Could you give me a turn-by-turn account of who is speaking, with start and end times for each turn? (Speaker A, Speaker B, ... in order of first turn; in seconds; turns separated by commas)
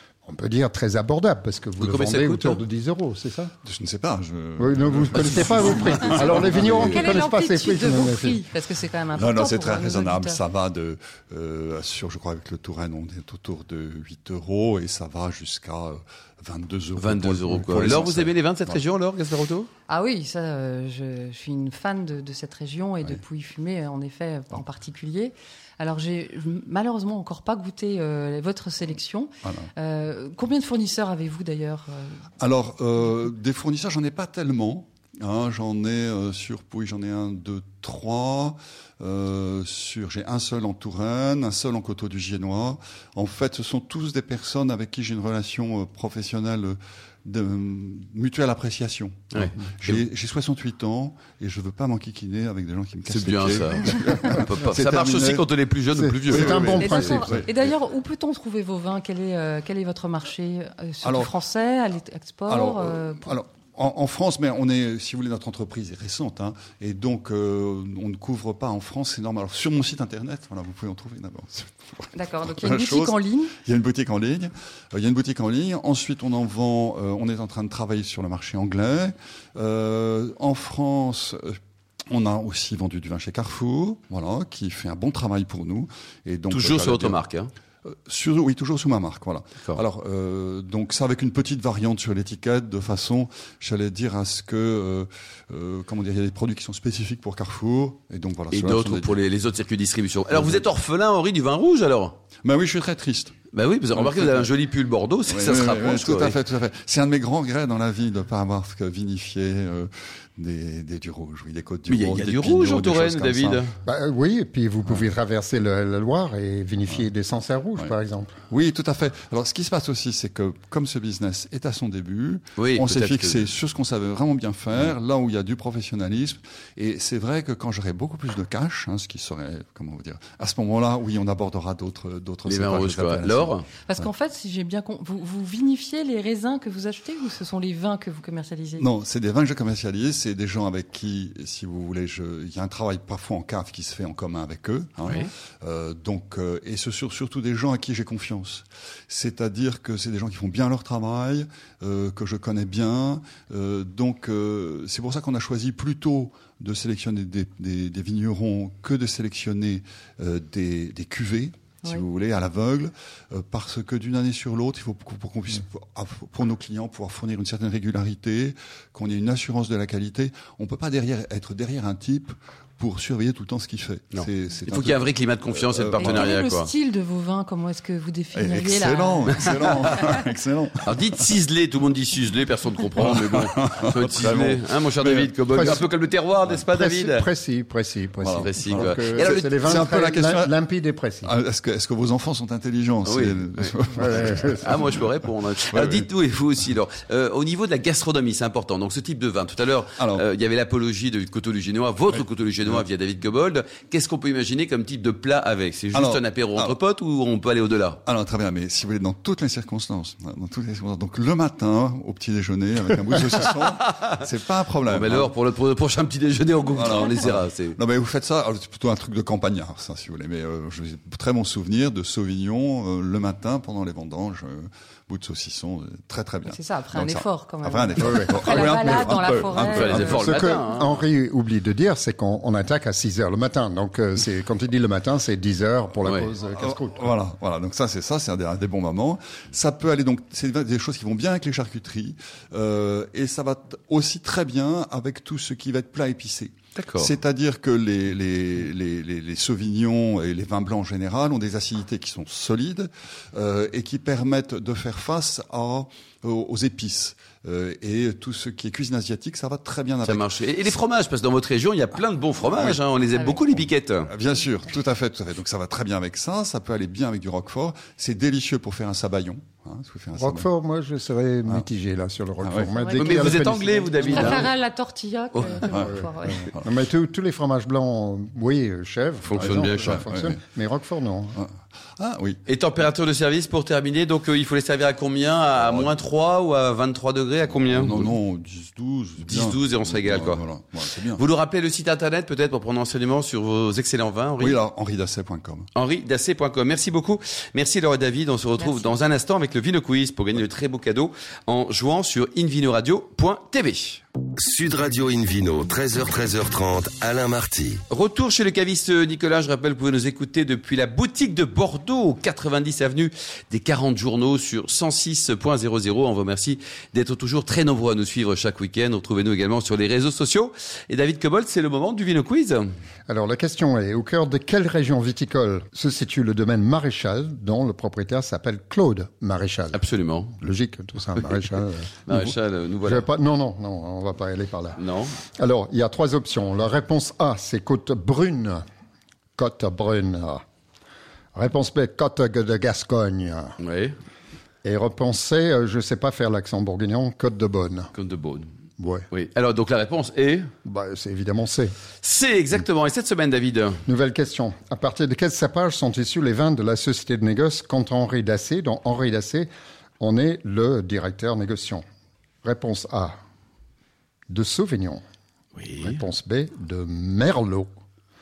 Speaker A: 0.2-3.5, Speaker B: 1.8-2.6, Speaker C: 3.6-7.2, Speaker A: 4.6-8.4, Speaker B: 5.1-7.1, Speaker D: 6.9-10.4, Speaker C: 9.1-18.8, Speaker B: 16.9-19.7, Speaker D: 19.9-32.2, Speaker C: 29.4-29.7, Speaker C: 32.4-55.5, Speaker B: 49.3-50.0, Speaker B: 53.1-57.2, Speaker A: 55.9-57.4, Speaker C: 56.3-57.8, Speaker D: 56.7-63.3, Speaker C: 61.0-61.3, Speaker C: 62.5-87.2, Speaker D: 72.1-73.6, Speaker B: 86.5-87.5, Speaker C: 87.8-99.2, Speaker B: 98.5-102.1, Speaker C: 100.3-100.6, Speaker C: 102.4-103.4, Speaker B: 103.5-106.4, Speaker C: 103.9-104.5, Speaker C: 105.3-113.6, Speaker B: 111.9-113.7, Speaker A: 113.9-118.3, Speaker C: 118.5-134.1, Speaker B: 122.6-123.5, Speaker B: 132.4-133.7, Speaker D: 133.8-138.9, Speaker C: 138.8-176.3, Speaker B: 174.1-176.7, Speaker D: 176.0-180.2, Speaker C: 178.3-181.3, Speaker B: 180.8-187.3, Speaker C: 183.0-185.8, Speaker A: 185.5-185.9, Speaker A: 186.7-191.3, Speaker C: 188.2-190.5, Speaker B: 188.4-189.5, Speaker C: 191.2-195.1, Speaker B: 193.1-193.7, Speaker A: 193.9-194.6, Speaker B: 194.6-208.0, Speaker C: 195.7-196.1, Speaker C: 200.0-200.2, Speaker C: 202.1-202.8, Speaker C: 205.9-206.8, Speaker C: 208.0-215.3, Speaker B: 213.4-214.1, Speaker B: 214.9-217.8, Speaker D: 216.7-217.1, Speaker C: 216.7-230.6, Speaker D: 226.4-230.3, Speaker A: 228.0-228.4, Speaker B: 229.6-231.0, Speaker A: 230.2-237.1, Speaker B: 236.0-236.3, Speaker C: 236.5-260.3, Speaker B: 246.8-247.1, Speaker B: 260.0-264.1, Speaker C: 262.5-262.8, Speaker D: 263.1-263.4, Speaker C: 263.5-270.5, Speaker A: 270.1-274.5, Speaker C: 272.4-272.7, Speaker D: 272.7-276.5, Speaker B: 273.0-274.5, Speaker B: 275.3-275.6, Speaker C: 275.6-276.8, Speaker A: 275.8-281.4, Speaker B: 279.2-280.0, Speaker C: 279.3-280.4, Speaker C: 281.4-282.4, Speaker B: 282.5-288.1, Speaker C: 285.5-285.9, Speaker C: 287.5-291.2, Speaker B: 289.2-290.5, Speaker B: 291.1-294.6, Speaker C: 294.4-295.7, Speaker B: 295.8-304.0, Speaker D: 298.6-299.0, Speaker E: 304.4-307.8, Speaker B: 307.9-322.7, Speaker A: 323.1-329.8, Speaker B: 329.7-330.3, Speaker A: 330.4-338.6, Speaker B: 332.1-333.1, Speaker B: 334.8-335.1, Speaker A: 339.4-340.4, Speaker A: 341.4-343.6, Speaker B: 343.6-344.0, Speaker A: 344.6-347.9, Speaker B: 347.9-348.5, Speaker A: 348.8-349.1, Speaker B: 349.1-350.5, Speaker A: 350.6-351.7, Speaker B: 352.0-353.8, Speaker A: 353.9-359.5, Speaker A: 360.0-361.8, Speaker A: 362.4-363.1, Speaker A: 364.3-365.0, Speaker B: 365.6-366.0, Speaker A: 365.8-367.7